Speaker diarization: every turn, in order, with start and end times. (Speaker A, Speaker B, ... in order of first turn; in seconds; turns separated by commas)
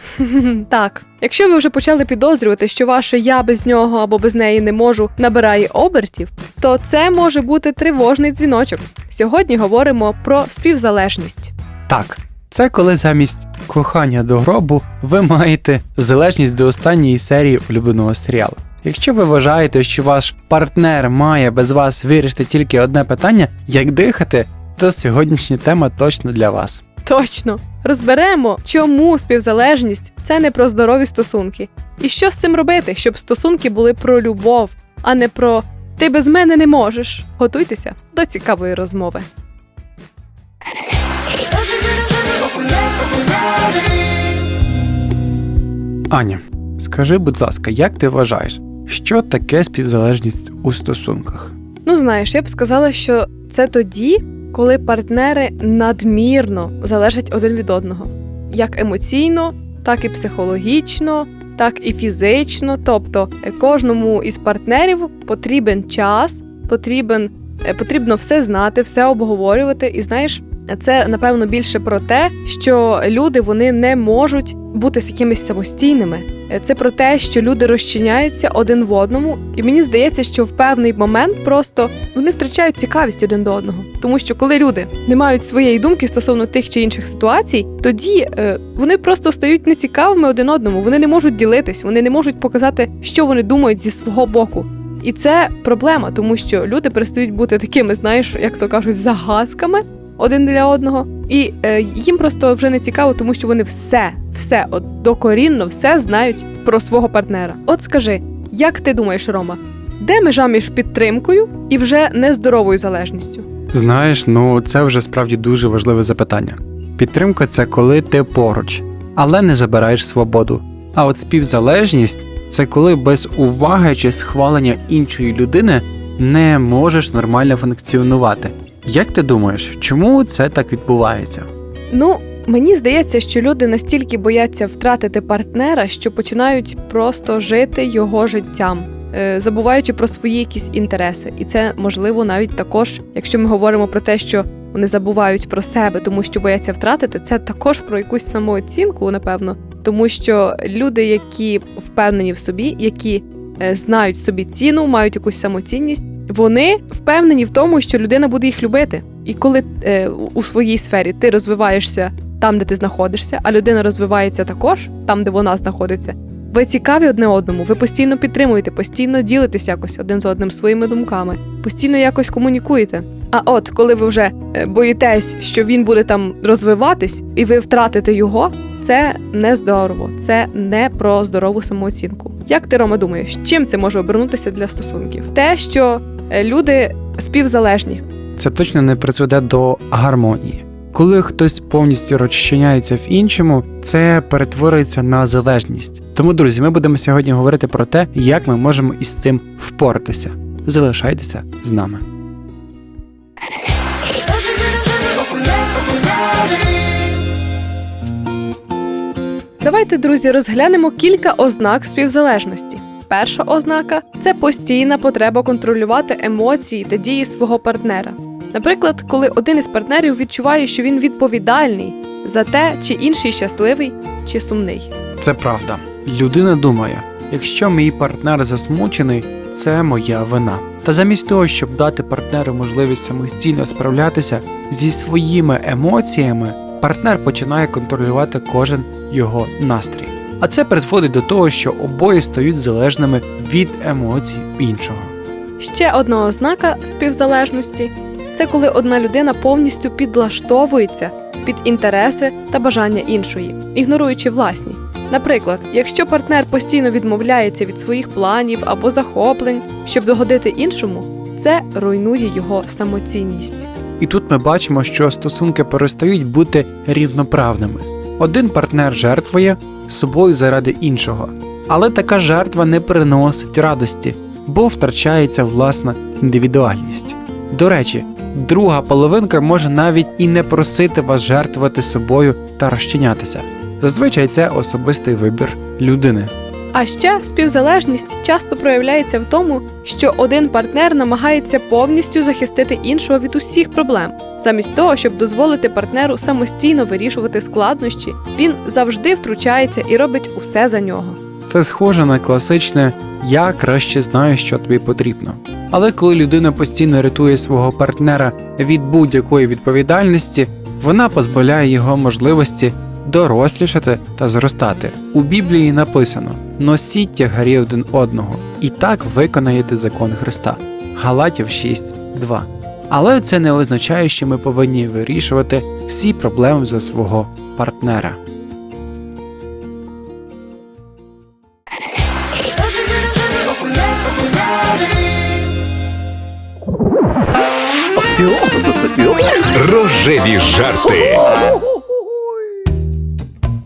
Speaker A: 0.2-11.5, Speaker B: 11.9-26.8, Speaker A: 27.0-39.3, Speaker B: 46.1-51.5, Speaker A: 51.8-113.5, Speaker B: 113.7-131.5, Speaker A: 131.9-188.0, Speaker B: 188.3-202.0, Speaker A: 209.6-224.9, Speaker B: 225.2-245.1, Speaker A: 245.6-263.7, Speaker B: 264.0-286.3, Speaker A: 286.7-301.2, Speaker B: 301.5-328.2, Speaker C: 338.2-341.5, Speaker B: 340.2-340.5